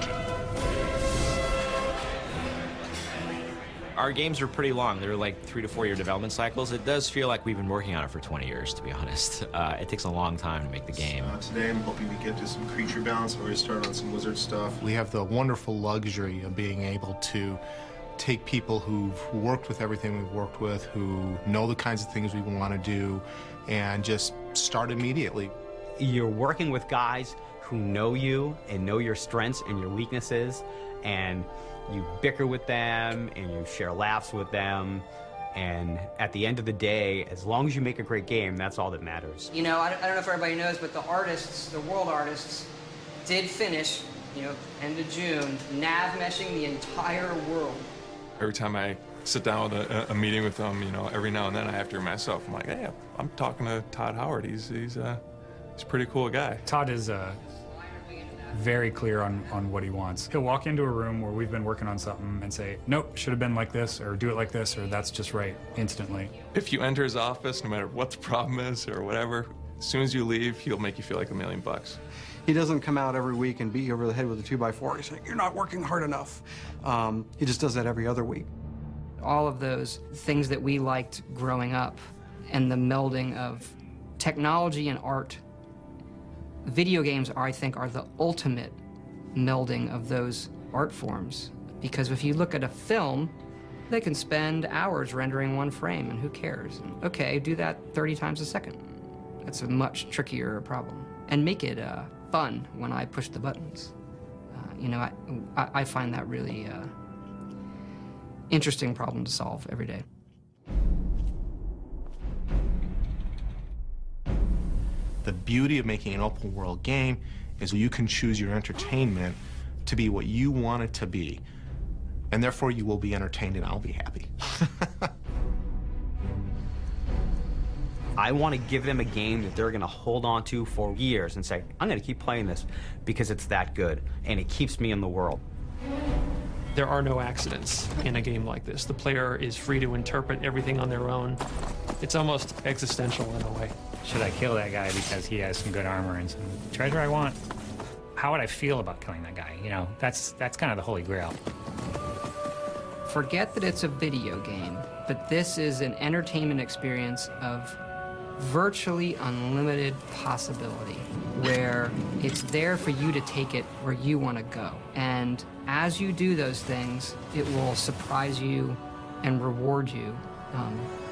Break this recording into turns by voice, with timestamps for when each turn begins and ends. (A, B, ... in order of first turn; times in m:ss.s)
0:04.0-0:11.4 A
0:11.2-0:14.8 B
0:14.8-0:17.6 C
0:18.2-0:25.5 C
0:26.0-0:39.5 D
0:39.5-0:42.7 E
0:43.2-0:47.9 E
0:48.4-0:55.2 F
0:55.8-0:56.6 F
0:56.6-0:57.4 G
0:58.5-1:06.4 G
1:06.5-1:12.0 F
1:12.5-1:18.5 H
1:19.2-1:25.4 E
1:26.6-1:28.8 E
1:29.4-1:33.4 E
1:33.9-1:43.9 E
1:44.5-1:46.9 E
1:48.5-1:50.0 E
1:55.2-2:01.4 C
2:02.3-2:05.1 C
2:08.2-2:15.4 D
2:16.7-2:21.4 I
2:22.0-2:23.7 I
2:24.0-2:27.4 J
2:28.2-2:31.4 J
2:33.1-2:37.8 E
2:38.4-2:50.9 E